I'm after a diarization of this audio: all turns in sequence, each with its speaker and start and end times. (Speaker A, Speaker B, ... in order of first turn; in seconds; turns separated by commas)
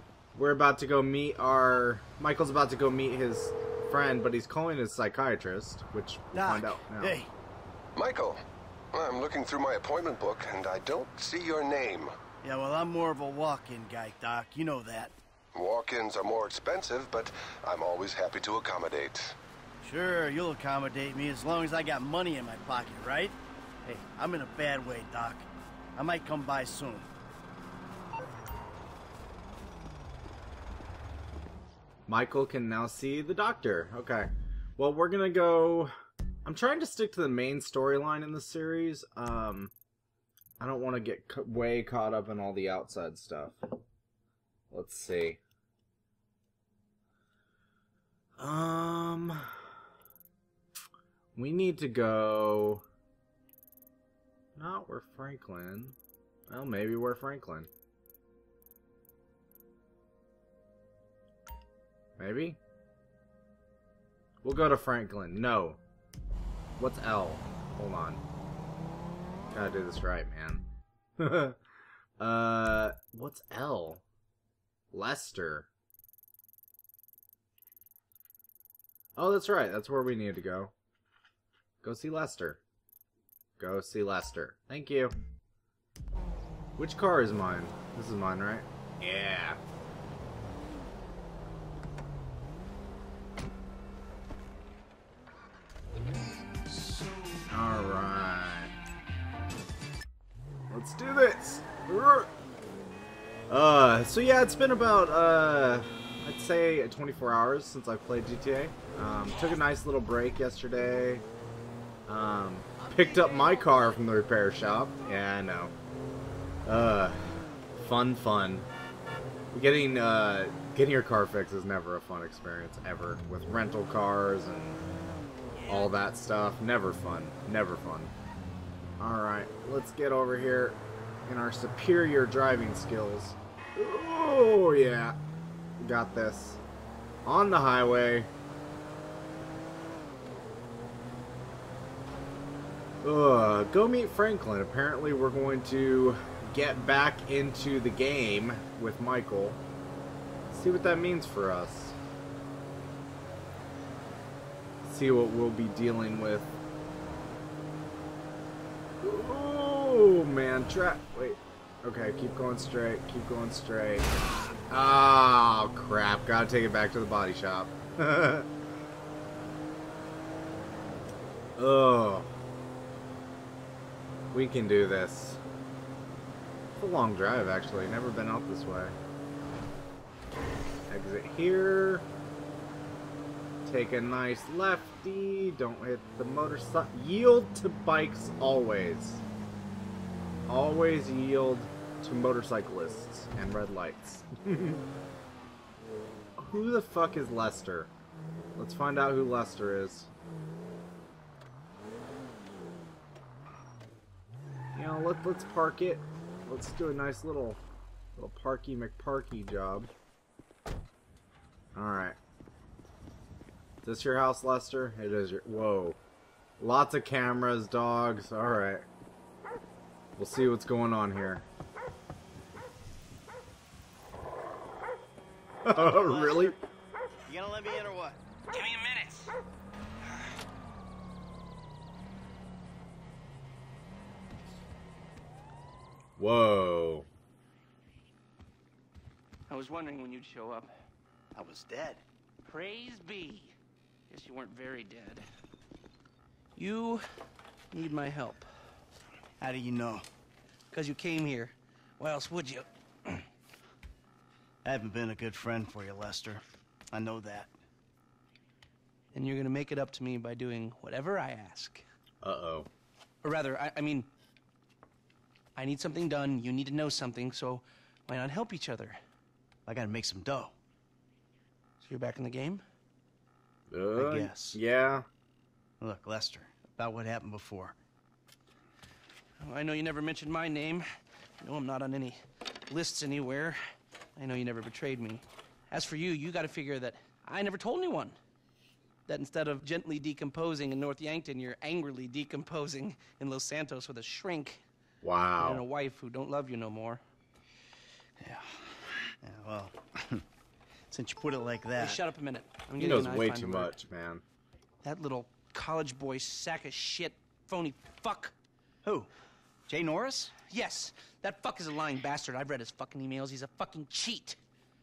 Speaker A: 0.3-7.2, Speaker B: 6.3-7.3, Speaker C: 8.0-8.4, Speaker C: 8.9-12.1, Speaker B: 12.4-15.1, Speaker C: 15.5-19.4, Speaker B: 19.8-27.1, Speaker A: 32.1-35.9, Speaker A: 36.5-39.7, Speaker A: 40.6-43.6, Speaker A: 44.7-45.4, Speaker A: 48.4-49.5, Speaker A: 51.4-52.8, Speaker A: 54.6-56.0, Speaker A: 56.5-57.7, Speaker A: 62.2-62.6, Speaker A: 64.4-65.8, Speaker A: 66.8-68.2, Speaker A: 69.5-70.7, Speaker A: 71.2-71.6, Speaker A: 72.2-74.0, Speaker A: 74.9-75.7, Speaker A: 79.2-80.7, Speaker A: 81.8-82.6, Speaker A: 83.6-85.2, Speaker A: 86.8-89.6, Speaker A: 97.5-98.7, Speaker A: 100.7-102.3, Speaker A: 103.5-111.2, Speaker A: 112.1-115.7, Speaker A: 116.7-118.7, Speaker A: 119.5-124.8, Speaker A: 125.7-128.1, Speaker A: 129.0-135.2, Speaker A: 135.8-136.6, Speaker A: 137.2-138.3, Speaker A: 143.0-149.6, Speaker A: 150.5-152.0, Speaker A: 154.8-156.5, Speaker A: 159.0-164.1, Speaker A: 164.7-168.5, Speaker A: 171.6-172.3, Speaker A: 174.3-175.4, Speaker A: 176.7-179.0, Speaker A: 180.9-182.1, Speaker A: 183.7-189.2, Speaker A: 190.5-194.8, Speaker A: 196.4-197.9, Speaker A: 198.6-200.1, Speaker A: 204.8-207.6, Speaker A: 208.2-209.9, Speaker A: 211.8-212.2, Speaker A: 213.8-216.0, Speaker A: 216.6-218.9, Speaker A: 220.2-221.4, Speaker A: 225.7-226.6, Speaker B: 225.7-226.6, Speaker B: 227.3-228.2, Speaker D: 228.5-229.3, Speaker A: 236.2-237.1, Speaker D: 239.5-240.7, Speaker B: 241.3-242.0, Speaker D: 242.4-243.5, Speaker D: 244.1-245.2, Speaker D: 246.6-247.1, Speaker D: 247.7-248.5, Speaker B: 249.4-250.1, Speaker D: 250.7-253.3, Speaker B: 254.6-257.5, Speaker D: 259.1-261.8, Speaker A: 262.2-262.7, Speaker D: 263.2-264.1, Speaker D: 265.6-269.0, Speaker B: 269.7-270.5, Speaker D: 271.8-272.6, Speaker A: 273.7-275.1, Speaker B: 274.0-274.6, Speaker B: 275.8-277.8, Speaker D: 279.4-280.8, Speaker D: 281.4-283.6, Speaker D: 284.2-288.2, Speaker D: 289.1-294.6, Speaker A: 295.0-295.6, Speaker D: 295.4-297.0, Speaker B: 298.2-300.2, Speaker B: 300.9-302.0, Speaker D: 301.8-303.8, Speaker A: 302.8-304.2, Speaker D: 304.8-308.3, Speaker B: 308.8-309.1, Speaker B: 309.7-310.4, Speaker D: 310.5-314.4